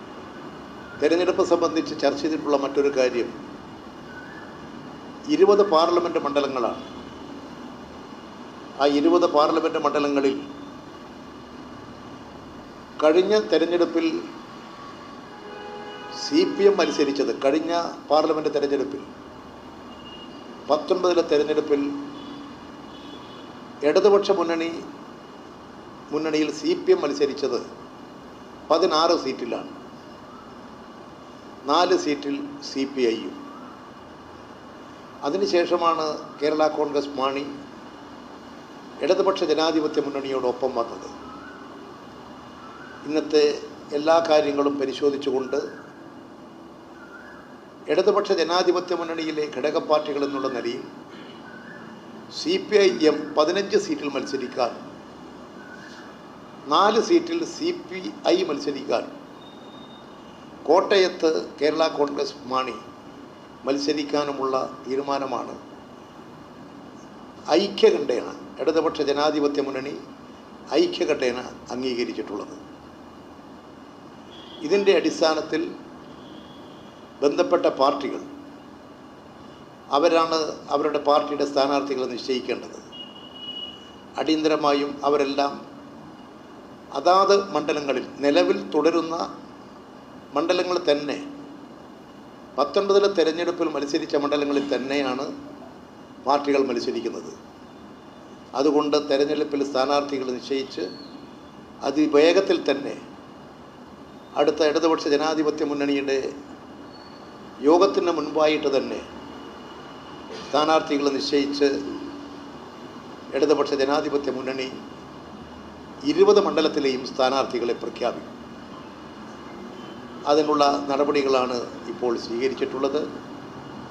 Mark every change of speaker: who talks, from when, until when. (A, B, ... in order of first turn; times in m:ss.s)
0:01.0-0:03.3 A
0:05.3-0:06.9 A
0:08.8-0:10.4 A
0:13.0-0:14.1 A
0:16.2-0:19.1 A
0:20.7-0:21.9 A
0:23.8-0:24.8 A
0:26.1-0:27.6 A
0:28.7-0:29.7 A
0:31.7-0:33.4 A
0:35.2-0:37.5 A
0:39.0-0:41.1 A
0:43.0-0:45.6 A
0:47.9-0:50.9 A
0:52.3-0:54.8 A
0:56.7-0:59.1 A
1:00.6-1:02.8 A
1:03.6-1:05.6 A
1:07.5-1:10.0 A
1:10.7-1:12.6 A
1:14.6-1:15.7 A
1:17.2-1:18.2 A
1:19.9-1:22.8 A
1:24.2-1:25.6 A
1:27.0-1:29.2 A
1:30.3-1:31.2 A
1:32.6-1:35.3 A
1:36.2-1:37.3 A
1:38.6-1:40.9 A
1:41.8-1:43.0 A
1:44.4-1:46.2 A
1:47.7-1:49.0 A
1:50.5-1:51.7 A
1:53.3-1:54.7 A
1:56.1-1:58.3 A
2:00.3-2:03.0 A